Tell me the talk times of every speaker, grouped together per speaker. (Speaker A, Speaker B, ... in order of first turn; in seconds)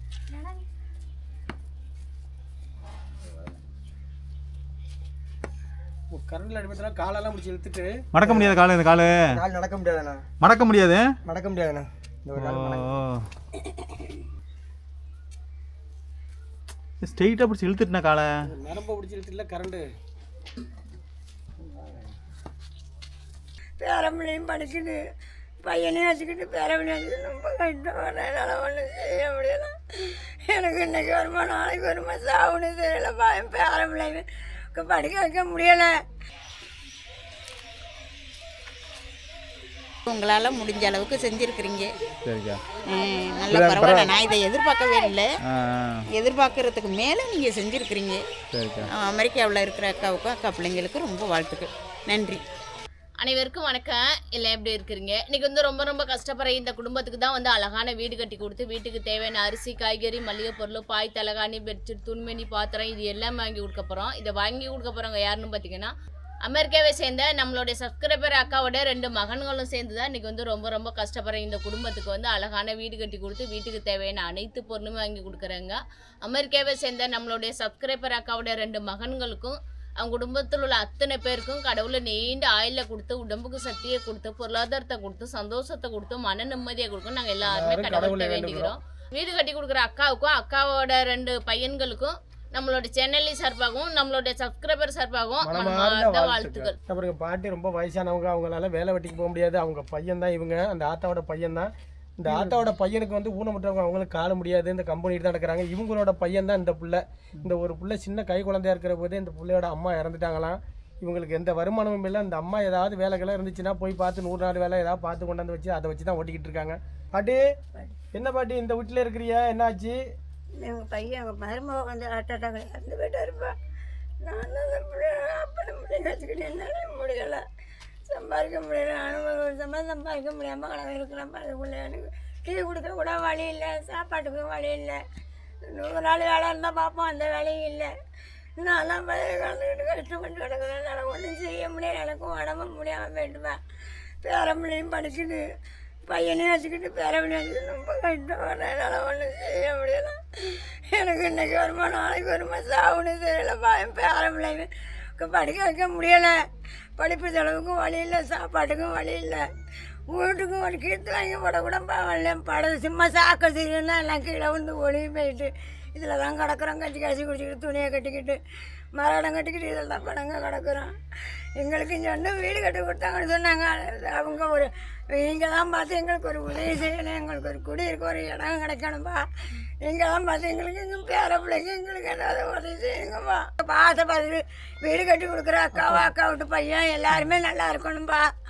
Speaker A: 6.1-7.9, 18.5-19.9, 87.4-88.7, 95.4-117.4, 118.1-120.0, 185.8-186.1
Speaker B: 8.1-9.2, 10.4-11.0, 12.4-13.2, 17.0-18.3, 42.2-42.6, 43.5-44.1, 45.5-46.0, 48.5-48.9
Speaker C: 8.2-8.6, 9.3-10.2, 11.2-13.0
Speaker D: 23.8-25.0, 25.6-29.7, 30.5-35.9, 120.6-123.5, 124.2-127.4, 128.1-135.0, 135.7-137.9, 138.6-143.6, 144.2-145.4, 146.1-150.1, 150.9-154.7, 155.2-156.3, 157.0-159.4, 160.1-168.4, 168.9-170.9, 171.6-179.2, 179.8-188.3
Speaker E: 40.1-41.9, 42.8-45.3, 46.1-48.2, 48.9-52.4
Speaker F: 53.2-65.9, 66.5-96.8